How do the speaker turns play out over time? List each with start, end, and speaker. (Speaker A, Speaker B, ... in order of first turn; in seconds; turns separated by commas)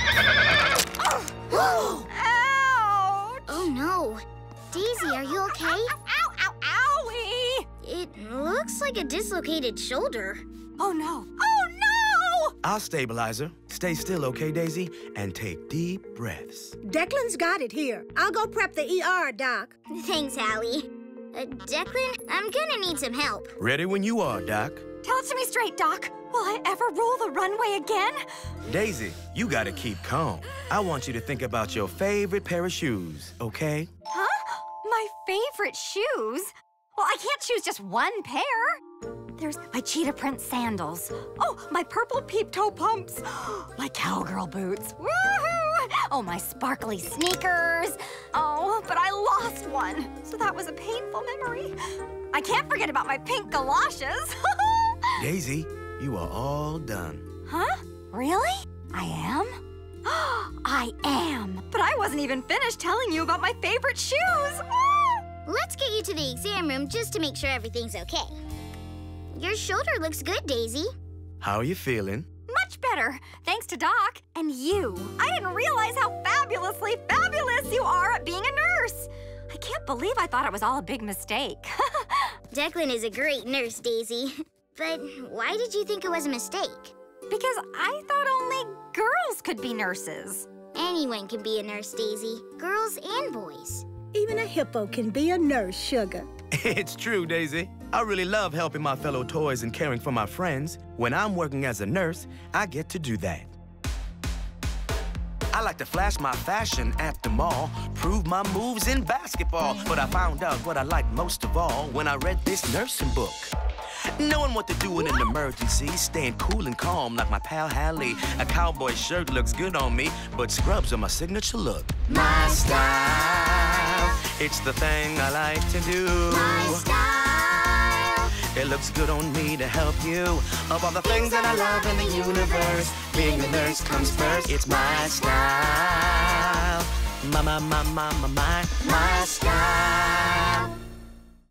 Speaker A: 1.2-3.7, Speaker B: 1.5-1.9, Speaker B: 3.5-5.9, Speaker A: 5.0-7.7, Speaker B: 7.8-10.4, Speaker A: 10.8-12.5, Speaker C: 12.6-16.8, Speaker D: 16.8-19.7, Speaker B: 19.9-23.5, Speaker C: 23.6-24.8, Speaker A: 25.0-28.2, Speaker C: 28.6-33.9, Speaker A: 34.1-38.8, Speaker A: 39.4-51.7, Speaker A: 52.3-55.2, Speaker C: 55.2-57.2, Speaker A: 57.5-65.2, Speaker B: 65.5-68.4, Speaker B: 69.3-70.9, Speaker C: 71.4-72.3, Speaker A: 72.5-82.3, Speaker B: 82.5-86.9, Speaker A: 87.3-90.5, Speaker B: 90.7-93.9, Speaker D: 94.1-96.3, Speaker C: 96.5-103.5, Speaker C: 105.5-113.5, Speaker C: 114.2-126.9, Speaker B: 122.1-124.1, Speaker B: 126.3-128.3, Speaker C: 128.5-140.7, Speaker B: 131.0-135.0